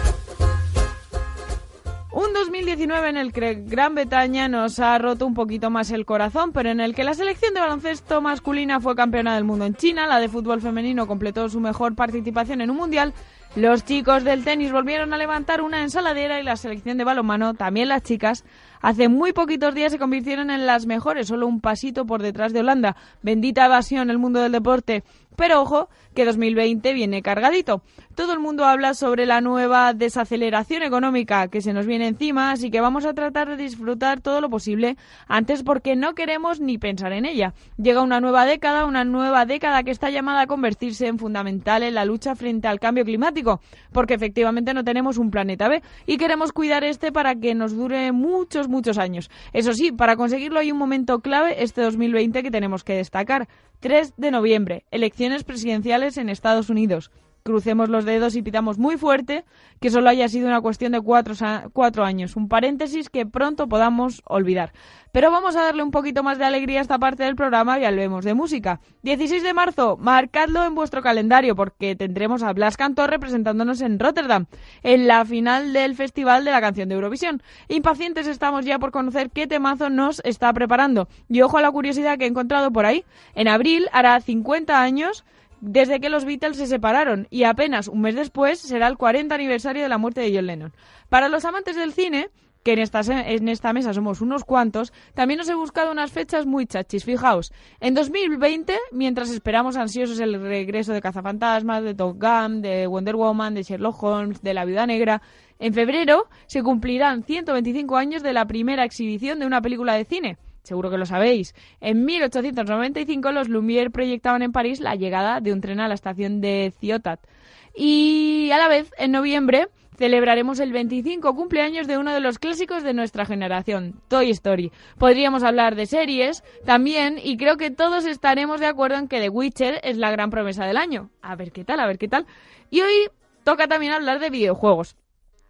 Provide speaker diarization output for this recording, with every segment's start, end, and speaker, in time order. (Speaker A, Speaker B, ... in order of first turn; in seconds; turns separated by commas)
Speaker A: 2.1-117.2, Speaker A: 117.7-134.9